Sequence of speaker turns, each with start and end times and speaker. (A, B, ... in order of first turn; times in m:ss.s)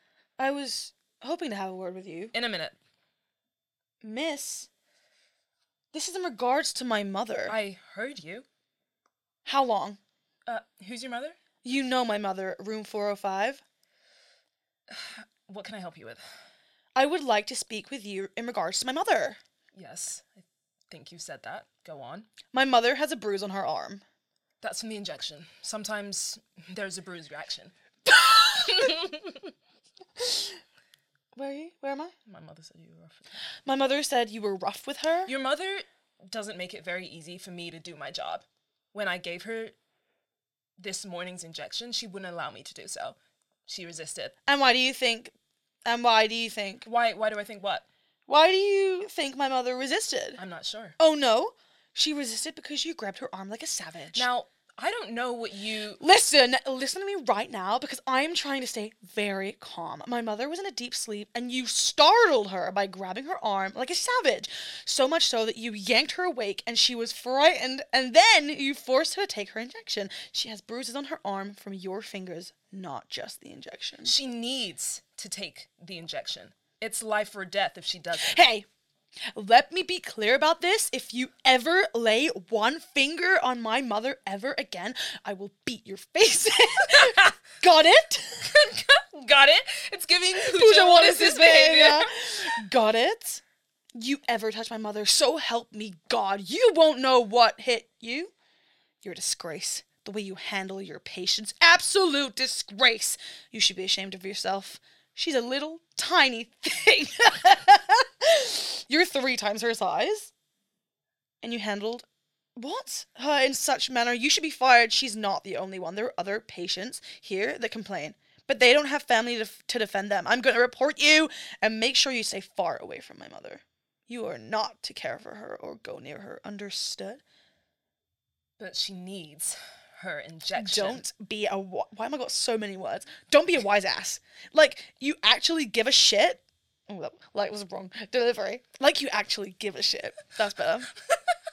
0:00.4-0:02.3 A
0:02.3-0:02.8 B
0:04.0-0:04.7 A
0:05.9-0:07.6 A
0:07.5-0:08.5 B
0:09.4-0:10.0 A
0:10.5-0:11.4 B
0:11.6-0:13.6 A
0:14.9-0:16.2 B
0:17.0-0:19.4 A
0:19.7-0:22.3 B
0:22.5-0:24.0 A
0:24.6-0:27.7 B
0:28.1-0:28.9 A
0:28.4-0:29.5 B
0:30.2-0:30.6 A
0:31.4-0:32.1 A
0:32.3-0:33.4 B
0:33.6-0:35.3 A
0:35.3-0:39.8 B
0:40.8-0:44.4 B
0:44.5-0:45.3 A
0:45.8-0:46.9 A
0:46.9-0:47.9 B
0:48.3-0:50.4 A
0:50.4-0:51.0 B
0:51.0-0:54.3 A
0:54.1-0:56.0 B
0:56.0-1:14.2 A
1:14.0-1:18.4 B
1:18.2-1:18.7 A
1:19.3-1:28.5 A
1:27.0-1:27.3 B
1:28.4-1:32.1 B
1:30.4-1:33.4 A
1:33.9-1:38.3 A
1:39.0-1:50.3 A
1:51.4-2:07.2 A
2:08.6-2:11.0 B
2:10.6-2:20.9 A